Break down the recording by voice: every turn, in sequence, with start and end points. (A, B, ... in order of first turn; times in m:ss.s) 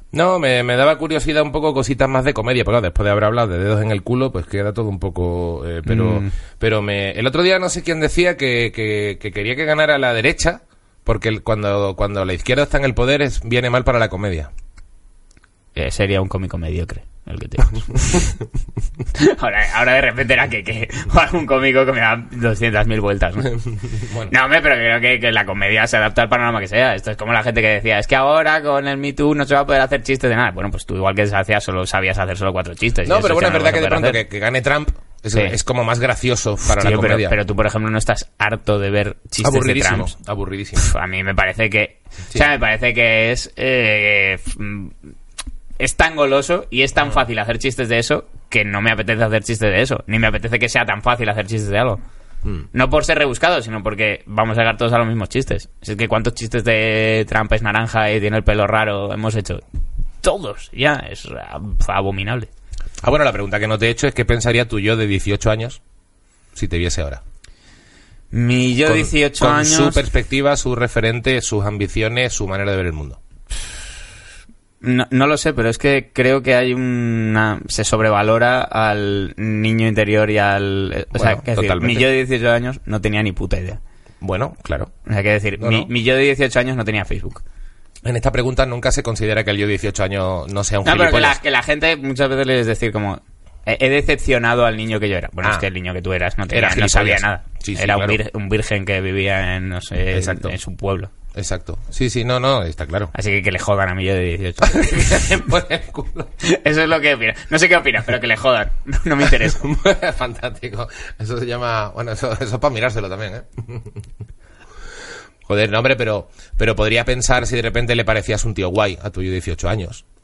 0:00.1-0:14.5 A
0:05.8-0:06.3 B
0:15.8-0:18.3 B
0:19.1-0:23.6 B
0:23.8-0:24.3 A
0:24.3-0:34.2 B
0:33.0-0:37.3 A
0:36.7-0:40.1 B
0:39.4-0:40.9 A
0:40.8-0:44.9 B
0:45.8-0:52.0 B
0:52.7-0:59.6 B
1:00.2-1:02.5 B
1:03.0-1:05.8 A
1:06.5-1:07.2 A
1:08.3-1:10.0 B
1:08.8-1:13.2 A
1:14.8-1:23.8 B
1:21.1-1:22.0 A
1:24.2-1:24.9 A
1:25.0-1:27.4 B
1:25.6-1:25.9 A
1:28.0-1:31.4 A
1:30.8-1:41.1 B
1:36.5-1:38.2 A
1:40.1-1:40.6 A
1:41.3-1:43.1 A
1:43.1-1:45.3 B
1:44.6-1:46.3 A
1:46.4-1:49.7 B
1:49.4-1:54.0 A
1:55.4-2:00.0 A